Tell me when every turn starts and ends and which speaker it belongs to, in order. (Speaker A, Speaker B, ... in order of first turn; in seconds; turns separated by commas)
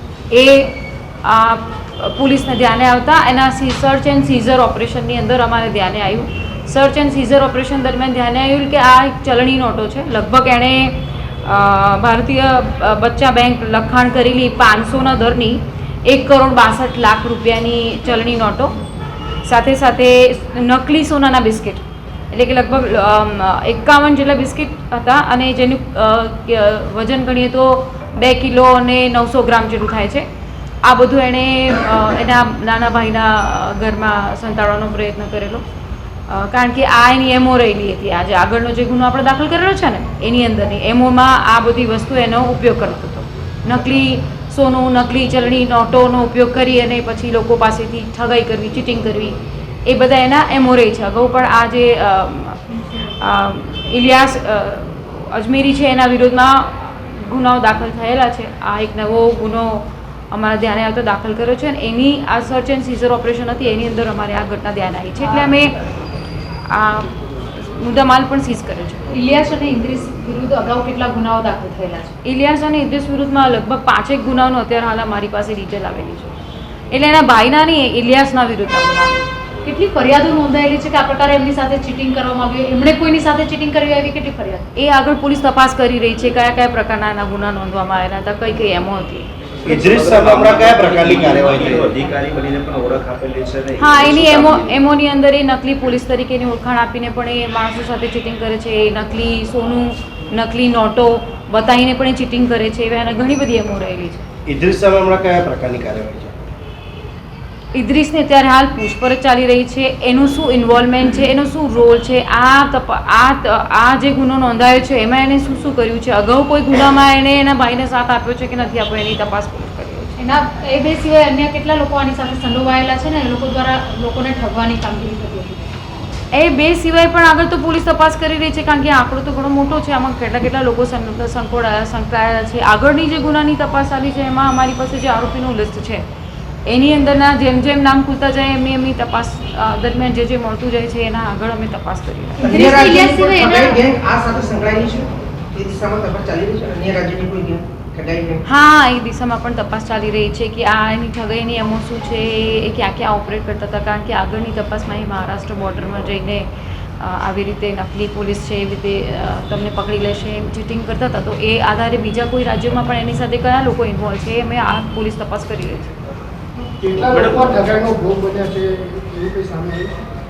Speaker A: 0.3-18.7, Speaker A: 19.4-30.3, Speaker A: 30.8-35.6, Speaker A: 36.3-65.8, Speaker A: 66.7-69.1, Speaker B: 69.1-72.2, Speaker A: 72.2-76.3, Speaker A: 76.9-79.2, Speaker B: 79.7-84.7, Speaker A: 84.8-89.3, Speaker C: 89.7-94.7, Speaker D: 89.7-92.1, Speaker A: 93.8-104.2, Speaker D: 104.5-106.3, Speaker A: 107.7-120.2, Speaker B: 120.2-125.7, Speaker A: 126.3-136.0, Speaker A: 136.7-142.5, Speaker B: 142.4-143.8, Speaker E: 142.4-148.4, Speaker A: 148.5-156.5, Speaker A: 157.0-165.9, Speaker D: 166.8-170.0, Speaker C: 167.1-167.6